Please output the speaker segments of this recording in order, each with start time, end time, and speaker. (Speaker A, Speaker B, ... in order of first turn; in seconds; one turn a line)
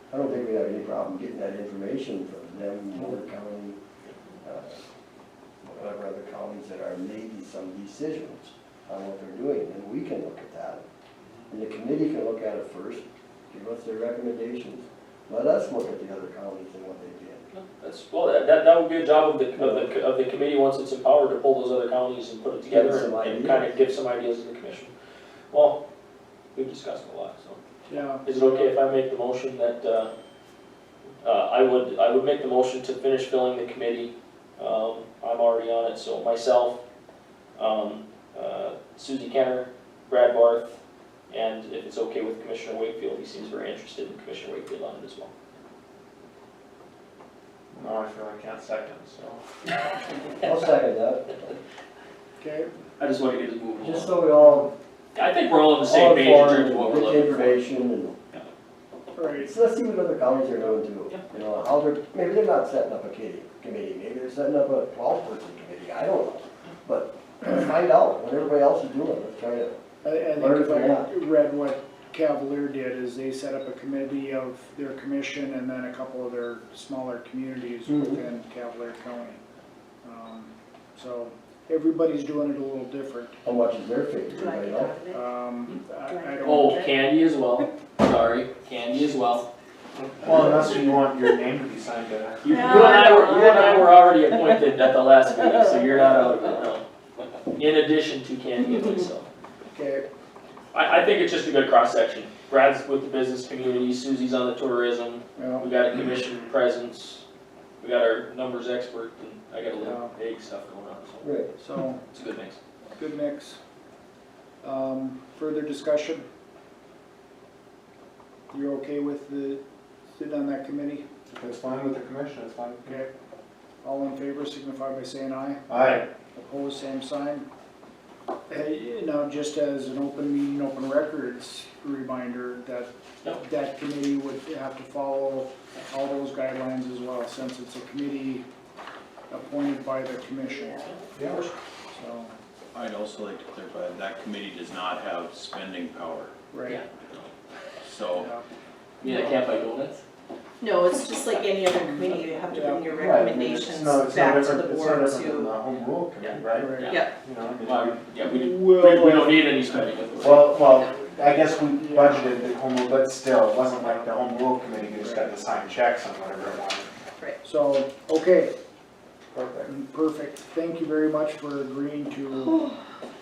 Speaker A: 0.1-3.8
Speaker A: 4.4-4.8
Speaker A: 5.6-10.8
Speaker A: 11.5-17.5
Speaker B: 17.5-24.9
Speaker A: 19.6-19.9
Speaker A: 22.7-23.6
Speaker B: 25.5-25.8
Speaker B: 26.5-27.6
Speaker C: 27.9-28.7
Speaker B: 28.2-30.1
Speaker B: 31.2-36.8
Speaker B: 37.5-40.8
Speaker B: 41.3-45.3
Speaker D: 47.7-49.4
Speaker A: 50.4-51.5
Speaker C: 52.4-52.7
Speaker B: 53.0-54.1
Speaker A: 53.8-54.7
Speaker C: 54.4-54.7
Speaker B: 55.1-57.6
Speaker A: 55.8-58.2
Speaker C: 59.1-59.5
Speaker A: 59.4-69.8
Speaker C: 70.0-79.4
Speaker A: 70.3-71.1
Speaker A: 77.9-78.2
Speaker C: 80.0-83.4
Speaker A: 83.4-85.0
Speaker E: 84.3-85.2
Speaker C: 85.1-86.9
Speaker E: 86.1-86.9
Speaker B: 86.4-89.5
Speaker D: 90.2-92.7
Speaker B: 92.4-96.8
Speaker E: 92.5-93.9
Speaker B: 97.5-99.3
Speaker C: 99.7-100.0
Speaker B: 100.7-107.2
Speaker C: 105.3-105.8
Speaker B: 107.8-111.3
Speaker C: 109.8-110.1
Speaker A: 111.2-111.5
Speaker C: 111.6-112.0
Speaker B: 112.1-112.6
Speaker C: 112.9-113.6
Speaker C: 114.6-116.2
Speaker C: 118.5-119.6
Speaker C: 120.2-121.0
Speaker D: 121.3-123.0
Speaker C: 123.8-127.5
Speaker D: 125.7-126.0
Speaker C: 128.5-138.4
Speaker C: 139.3-140.8
Speaker E: 140.6-140.9
Speaker B: 140.8-141.5
Speaker D: 141.1-141.4
Speaker C: 141.9-142.3
Speaker F: 142.7-146.3
Speaker C: 146.5-146.8
Speaker B: 146.6-147.3
Speaker F: 147.8-148.3
Speaker C: 148.1-148.4
Speaker B: 149.0-150.0
Speaker E: 150.6-155.5
Speaker C: 152.5-152.9
Speaker D: 152.9-158.0
Speaker B: 156.2-157.1
Speaker C: 156.4-157.0
Speaker B: 157.6-160.5
Speaker C: 158.2-159.5
Speaker D: 160.2-166.9
Speaker C: 161.7-162.4
Speaker C: 163.8-164.1
Speaker C: 165.0-165.3
Speaker C: 167.4-168.5
Speaker D: 169.3-169.7
Speaker C: 169.7-172.7